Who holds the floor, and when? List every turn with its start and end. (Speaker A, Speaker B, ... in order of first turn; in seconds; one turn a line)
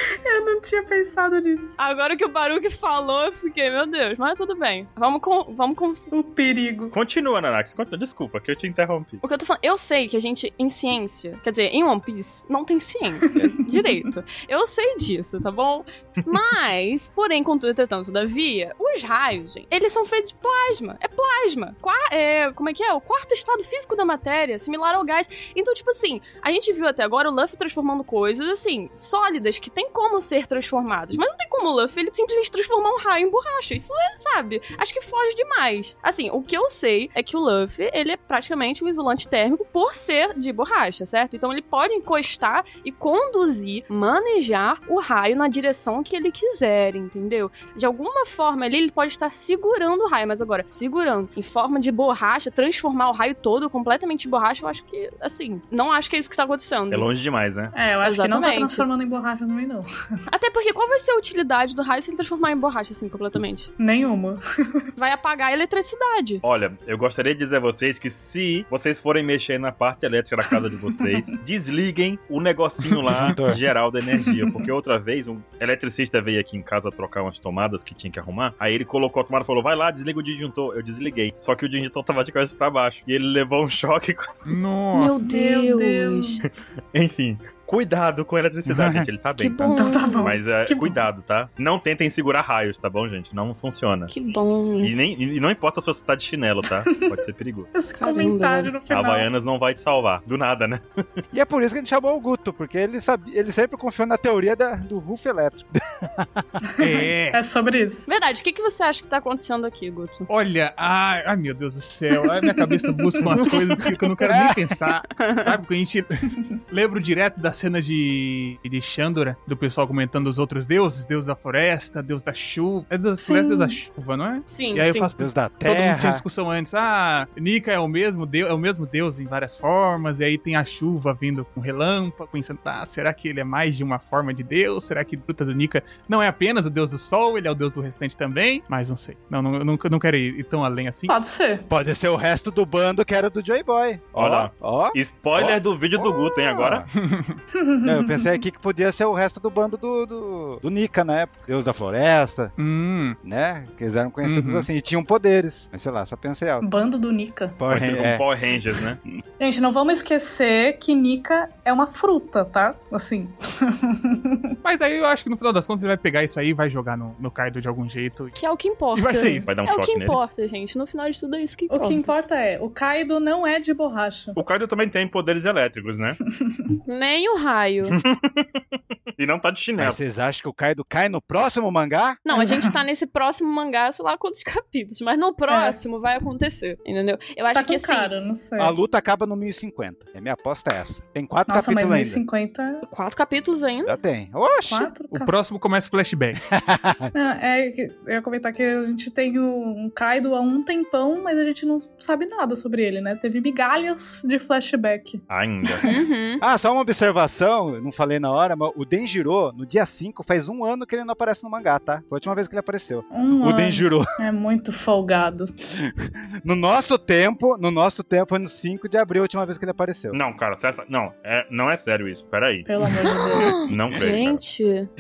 Speaker A: 0.2-1.8
Speaker B: 1.8-6.1
Speaker A: 6.1-6.9
Speaker C: 6.9-9.2
Speaker B: 9.2-57.1
Speaker A: 13.2-13.9
Speaker C: 56.9-57.7
Speaker A: 57.7-60.2
Speaker B: 58.0-58.9
Speaker B: 60.3-63.7
Speaker A: 63.8-64.4
Speaker B: 65.0-66.4
Speaker C: 66.4-84.3
Speaker D: 73.2-73.6
Speaker E: 84.5-85.2
Speaker B: 84.9-86.4
Speaker A: 85.2-86.4
Speaker C: 86.9-89.7
Speaker D: 88.7-89.0
Speaker B: 89.4-90.3
Speaker A: 89.6-91.0
Speaker C: 90.2-94.1
Speaker B: 94.1-94.9
Speaker C: 94.8-97.7
Speaker A: 97.7-99.3
Speaker B: 98.0-98.7
Speaker C: 98.9-101.0
Speaker D: 101.3-106.5
Speaker A: 106.8-108.1
Speaker E: 106.8-107.4
Speaker B: 108.1-110.3
Speaker E: 110.3-141.1
Speaker A: 112.6-113.6
Speaker D: 114.2-114.8
Speaker B: 115.2-115.5
Speaker A: 123.2-123.8
Speaker B: 124.5-125.1
Speaker D: 125.2-126.2
Speaker A: 141.1-141.7
Speaker D: 141.7-146.9
Speaker C: 144.2-146.8
Speaker E: 146.9-147.4
Speaker A: 147.5-148.4
Speaker D: 147.8-152.5
Speaker E: 152.6-153.2
Speaker D: 153.2-156.7
Speaker E: 154.2-154.7
Speaker A: 156.6-157.6
Speaker D: 157.6-159.2
Speaker C: 157.7-159.0
Speaker A: 159.4-164.5
Speaker E: 164.6-168.3
Speaker B: 168.4-172.1
Speaker E: 168.9-169.5
Speaker C: 169.5-170.2
Speaker A: 171.7-174.4
Speaker C: 174.3-176.2
Speaker A: 176.4-176.7
Speaker B: 176.9-178.0
Speaker C: 177.9-178.5
Speaker C: 179.2-180.0
Speaker D: 179.8-182.2
Speaker B: 182.3-188.1
Speaker A: 182.3-182.7
Speaker A: 185.5-185.8
Speaker A: 187.5-188.7
Speaker D: 188.6-192.2
Speaker A: 191.5-192.8
Speaker B: 192.8-194.0
Speaker D: 193.8-194.9
Speaker A: 194.7-195.3
Speaker E: 195.1-196.4
Speaker D: 196.5-197.1
Speaker A: 197.1-205.2
Speaker C: 205.3-205.8
Speaker B: 205.8-206.4
Speaker D: 206.4-214.1
Speaker A: 213.1-215.5
Speaker D: 215.8-220.2
Speaker C: 220.1-222.7
Speaker A: 222.7-223.6
Speaker B: 223.2-224.9
Speaker C: 223.6-224.4